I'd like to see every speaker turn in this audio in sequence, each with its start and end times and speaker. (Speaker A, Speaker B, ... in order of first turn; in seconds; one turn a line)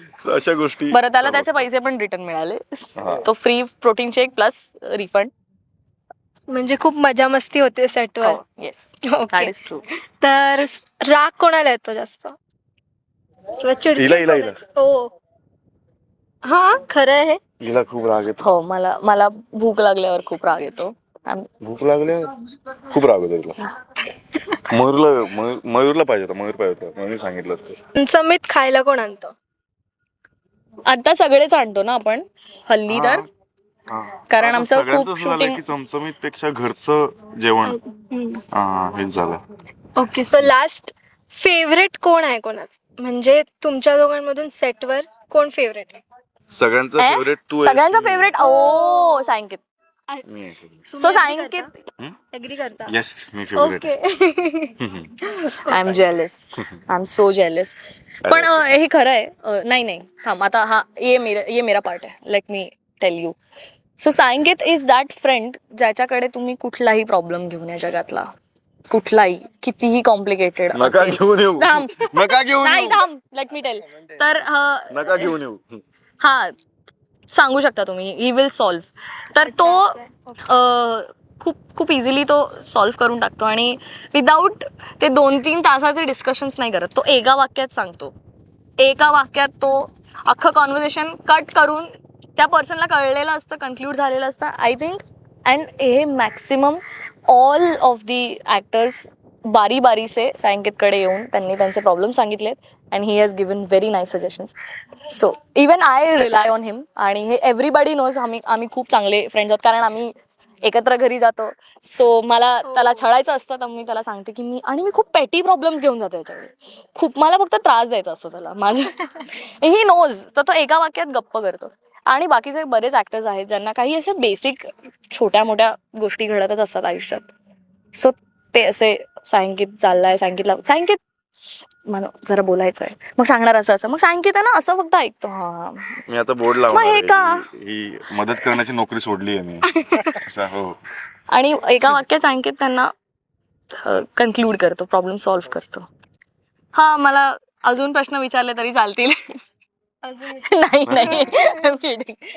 Speaker A: 0.2-1.7
Speaker B: 0.9-5.3
Speaker A: 3.0-3.2
Speaker C: 6.5-8.4
Speaker B: 8.2-9.8
Speaker C: 9.1-9.5
Speaker C: 10.2-12.3
Speaker C: 13.6-15.1
Speaker A: 14.0-14.6
Speaker C: 16.5-17.4
Speaker A: 17.6-18.4
Speaker B: 18.4-21.5
Speaker A: 21.6-22.3
Speaker A: 22.9-23.6
Speaker A: 24.7-27.8
Speaker C: 28.0-29.3
Speaker B: 30.9-33.2
Speaker A: 32.9-33.3
Speaker A: 33.9-37.8
Speaker B: 34.3-35.6
Speaker C: 37.7-38.4
Speaker A: 38.5-39.4
Speaker C: 40.0-46.0
Speaker A: 46.5-48.3
Speaker B: 47.0-49.6
Speaker C: 48.4-49.3
Speaker A: 50.3-50.9
Speaker C: 50.9-51.7
Speaker B: 51.0-51.7
Speaker C: 52.3-52.9
Speaker A: 52.9-53.9
Speaker C: 53.6-56.0
Speaker A: 54.8-55.1
Speaker B: 55.7-57.8
Speaker A: 58.2-58.7
Speaker B: 58.3-63.4
Speaker B: 64.0-68.3
Speaker B: 68.9-75.3
Speaker A: 70.7-73.0
Speaker A: 74.9-75.8
Speaker B: 76.2-76.5
Speaker B: 77.3-80.0
Speaker C: 79.4-80.3
Speaker B: 80.5-88.1
Speaker B: 88.8-104.5
Speaker B: 105.1-127.3
Speaker C: 112.7-113.0
Speaker B: 128.0-131.0
Speaker B: 131.9-136.0
Speaker A: 136.1-140.8
Speaker B: 136.7-137.4
Speaker C: 139.7-140.2
Speaker B: 141.3-142.9
Speaker B: 143.8-145.9
Speaker B: 146.8-149.3
Speaker C: 150.0-150.5
Speaker B: 150.5-152.2
Speaker A: 150.9-151.3
Speaker C: 151.1-151.5